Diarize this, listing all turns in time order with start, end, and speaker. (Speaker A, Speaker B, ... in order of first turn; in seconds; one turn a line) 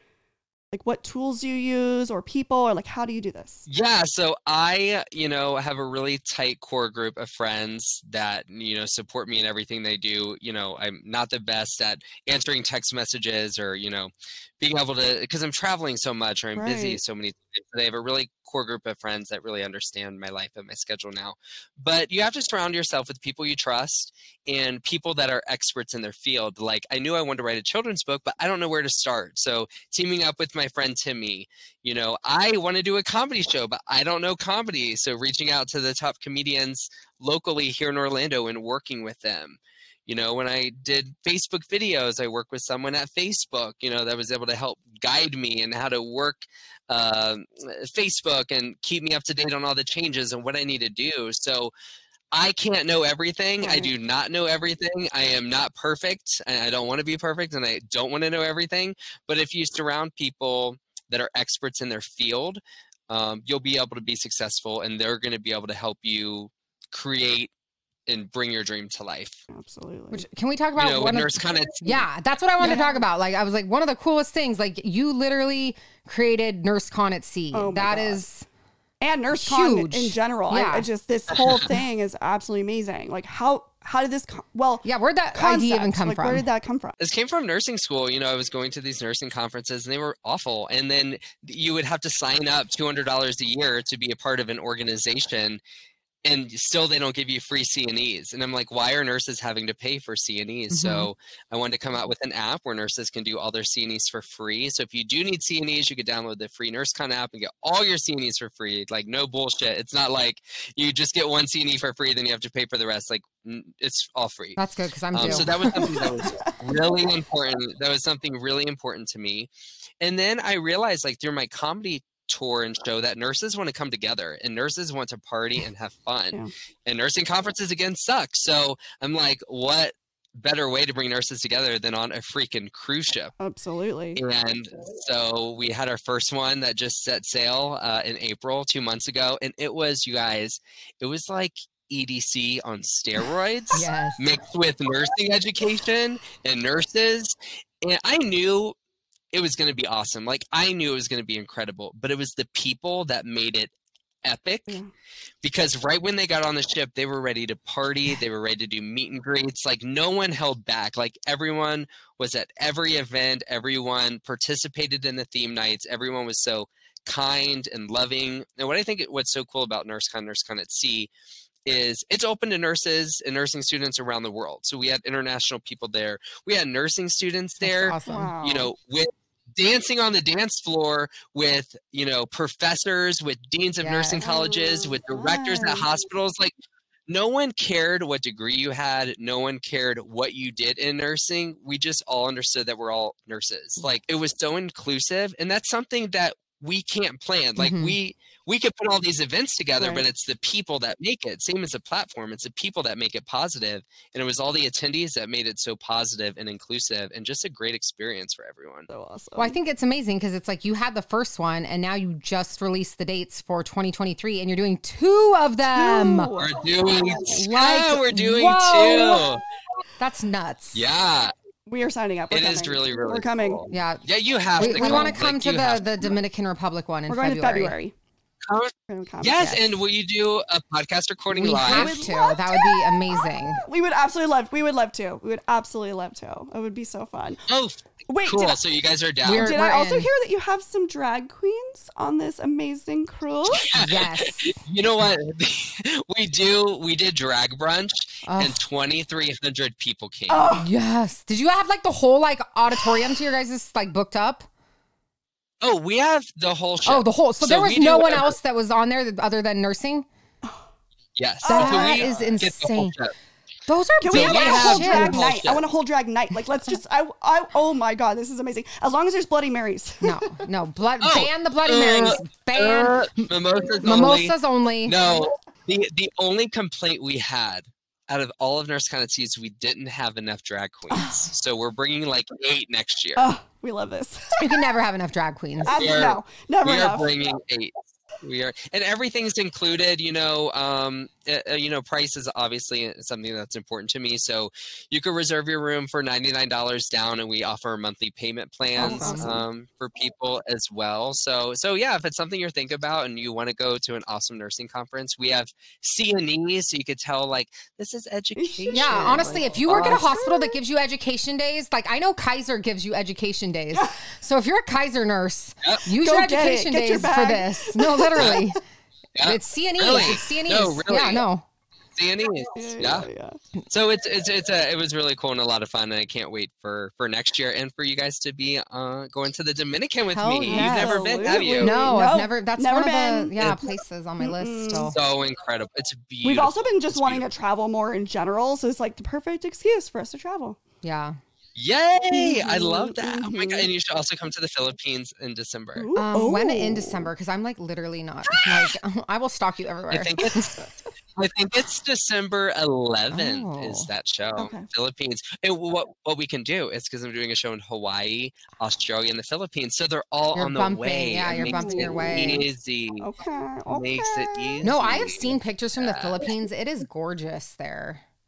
Speaker A: 0.7-3.6
Speaker B: 3.7-51.7
Speaker A: 16.6-17.0
Speaker B: 52.3-67.5
Speaker A: 53.6-53.9
Speaker B: 68.1-69.4
Speaker A: 69.5-70.2
Speaker C: 70.1-78.4
Speaker B: 70.8-72.0
Speaker A: 72.6-73.0
Speaker A: 77.5-78.2
Speaker A: 79.0-87.0
Speaker C: 79.4-80.9
Speaker C: 84.8-86.4
Speaker B: 87.0-95.6
Speaker B: 96.2-114.6
Speaker C: 100.7-101.1
Speaker C: 114.6-116.1
Speaker B: 115.1-119.5
Speaker A: 115.3-116.8
Speaker B: 120.0-133.3
Speaker A: 133.4-134.2
Speaker B: 134.2-148.8
Speaker C: 143.7-144.3
Speaker B: 149.3-153.7
Speaker B: 154.2-154.8
Speaker B: 155.4-171.1
Speaker B: 171.7-186.5
Speaker C: 177.6-178.3
Speaker A: 178.1-178.7
Speaker C: 183.8-184.3
Speaker A: 184.2-185.9
Speaker B: 187.1-208.9
Speaker C: 197.6-197.9
Speaker A: 208.9-209.6
Speaker C: 209.4-216.4
Speaker A: 215.7-216.6
Speaker B: 216.4-219.4
Speaker C: 217.3-219.2
Speaker C: 220.0-220.9
Speaker B: 220.7-221.3
Speaker A: 221.7-223.7
Speaker B: 222.3-226.1
Speaker C: 223.7-224.0
Speaker C: 224.6-227.7
Speaker A: 224.6-225.1
Speaker A: 227.1-227.9
Speaker B: 228.4-232.0
Speaker A: 228.9-229.5
Speaker C: 229.4-229.8
Speaker C: 231.3-233.6
Speaker A: 231.7-237.4
Speaker B: 237.5-239.6
Speaker A: 238.1-238.6
Speaker C: 239.2-240.1
Speaker A: 239.3-243.7
Speaker B: 243.5-250.5
Speaker C: 243.7-244.6
Speaker C: 248.2-248.6
Speaker A: 250.3-250.7
Speaker C: 250.6-254.5
Speaker B: 255.6-258.3
Speaker C: 256.9-260.1
Speaker B: 261.2-263.1
Speaker A: 261.4-262.4
Speaker C: 261.5-262.9
Speaker C: 263.7-265.3
Speaker A: 264.0-270.4
Speaker B: 264.1-265.6
Speaker C: 270.0-273.3
Speaker B: 271.0-283.3
Speaker C: 273.8-275.0
Speaker A: 280.9-281.3
Speaker A: 283.1-284.4
Speaker C: 284.4-285.8
Speaker A: 285.6-287.1
Speaker B: 285.7-310.1
Speaker C: 298.8-299.4
Speaker A: 298.8-299.4
Speaker A: 308.4-310.6
Speaker C: 308.7-318.6
Speaker A: 316.0-318.5
Speaker B: 318.1-318.4
Speaker B: 319.1-321.2
Speaker C: 319.2-321.4
Speaker B: 321.9-323.1
Speaker A: 322.6-323.4
Speaker B: 323.7-331.9
Speaker C: 330.1-335.0
Speaker A: 330.5-333.3
Speaker B: 333.4-333.7
Speaker A: 334.2-334.9
Speaker B: 334.9-337.2
Speaker A: 336.2-340.6
Speaker C: 340.8-341.2
Speaker B: 341.6-345.9
Speaker A: 342.1-343.7
Speaker A: 345.8-347.1
Speaker C: 345.9-350.5
Speaker B: 348.3-348.7
Speaker B: 349.9-350.6
Speaker B: 351.1-363.1
Speaker C: 353.1-353.9
Speaker A: 354.4-354.7
Speaker C: 360.3-362.4
Speaker A: 361.3-362.3
Speaker A: 363.0-364.7
Speaker B: 363.7-366.2
Speaker C: 364.6-368.0